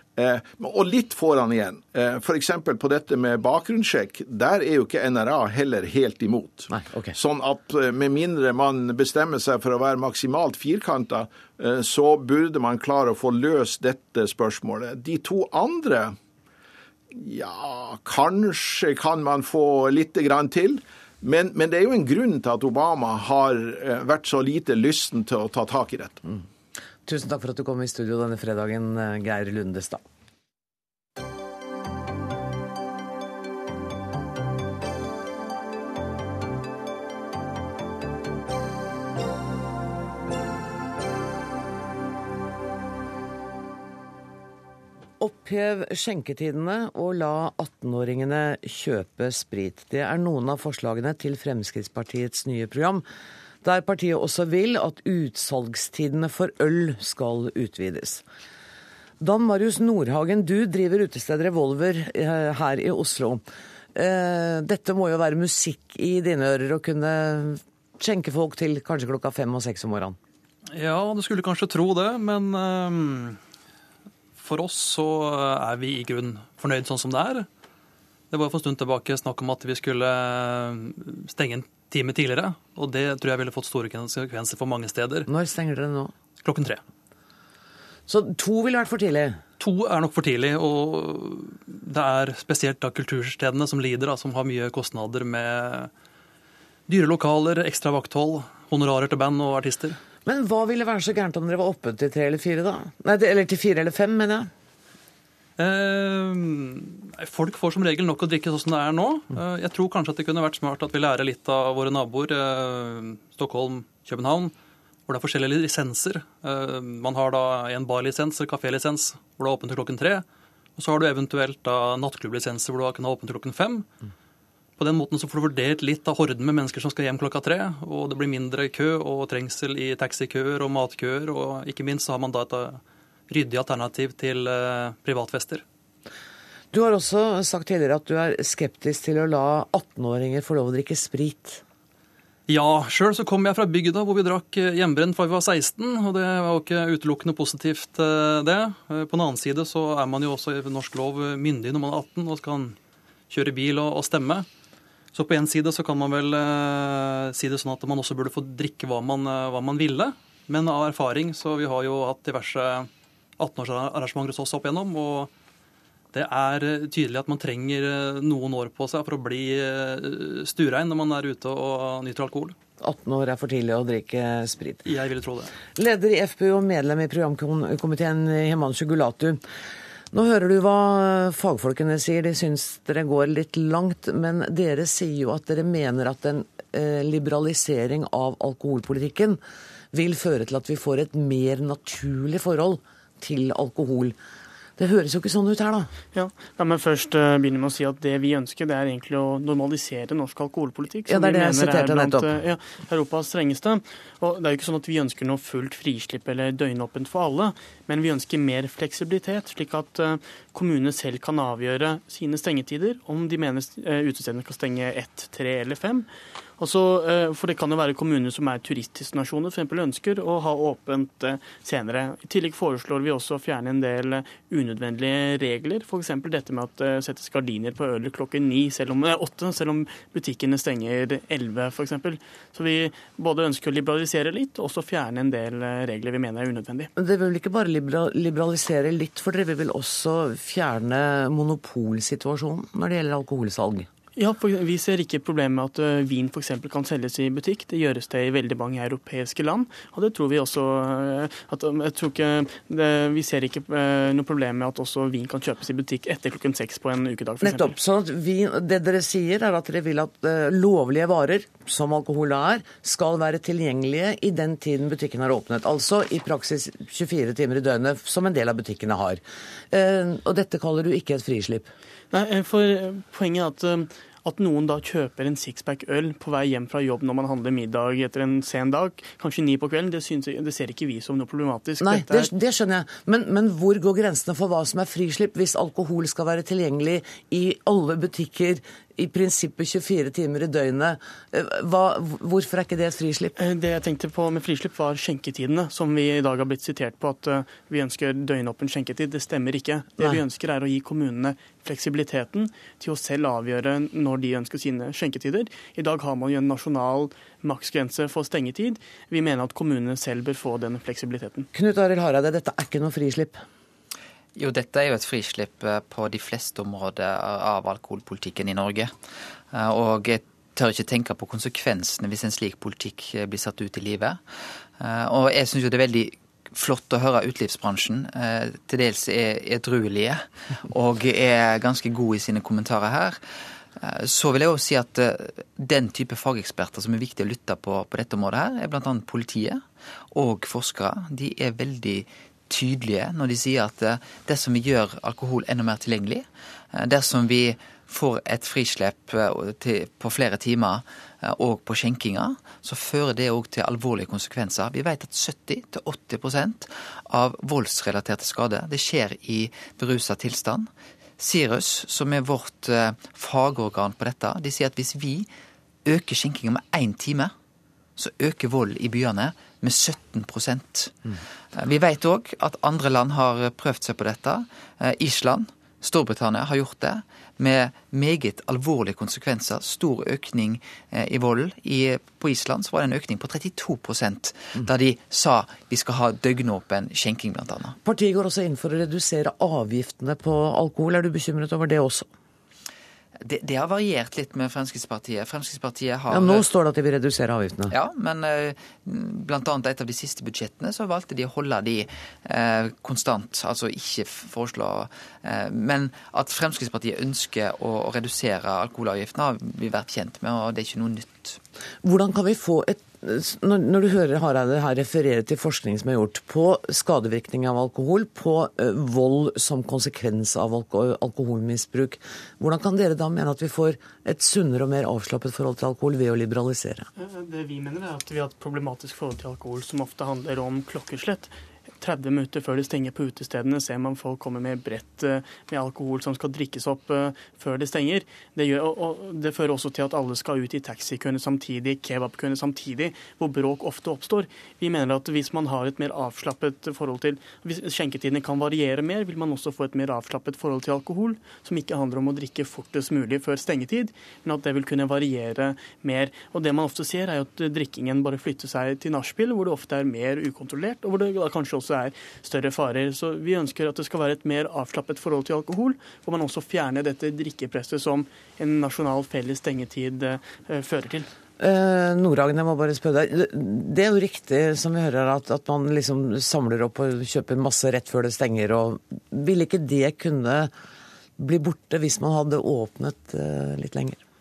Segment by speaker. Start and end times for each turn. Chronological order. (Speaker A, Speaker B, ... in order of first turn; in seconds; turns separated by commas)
Speaker A: 0.1-16.1, Speaker B: 6.7-7.1, Speaker A: 17.1-26.2, Speaker B: 27.1-30.0, Speaker B: 45.2-53.0, Speaker B: 53.6-58.2, Speaker B: 59.2-63.4, Speaker B: 63.9-70.2, Speaker C: 70.7-73.4, Speaker C: 74.4-77.5, Speaker C: 78.3-85.3, Speaker B: 85.3-86.1, Speaker C: 86.4-86.8, Speaker B: 88.1-89.4, Speaker C: 89.6-95.9, Speaker C: 96.9-100.0, Speaker B: 100.2-104.5, Speaker C: 105.6-114.5, Speaker C: 115.1-120.2, Speaker C: 120.8-123.9, Speaker C: 124.8-135.6, Speaker B: 136.7-141.6, Speaker C: 142.5-152.8, Speaker C: 153.3-154.5, Speaker C: 155.1-165.3, Speaker C: 166.1-172.6, Speaker B: 172.8-174.8, Speaker C: 174.8-175.5, Speaker B: 175.7-179.4, Speaker B: 180.1-189.4, Speaker B: 189.9-194.2, Speaker B: 194.8-195.9, Speaker D: 196.1-236.9, Speaker B: 201.1-202.3, Speaker B: 236.9-243.9, Speaker D: 244.2-257.7, Speaker B: 257.4-271.7, Speaker D: 272.1-282.3, Speaker B: 281.8-293.4, Speaker D: 293.4-311.5, Speaker B: 311.5-313.4, Speaker E: 314.4-318.9, Speaker E: 319.5-324.2, Speaker E: 324.8-333.2, Speaker E: 333.8-365.3, Speaker E: 365.8-367.3, Speaker E: 368.0-387.8, Speaker B: 387.8-392.1, Speaker E: 393.2-396.5, Speaker B: 396.1-397.7, Speaker E: 397.7-411.4, Speaker B: 411.8-426.9, Speaker D: 427.0-471.1, Speaker B: 471.4-480.5, Speaker B: 481.2-484.0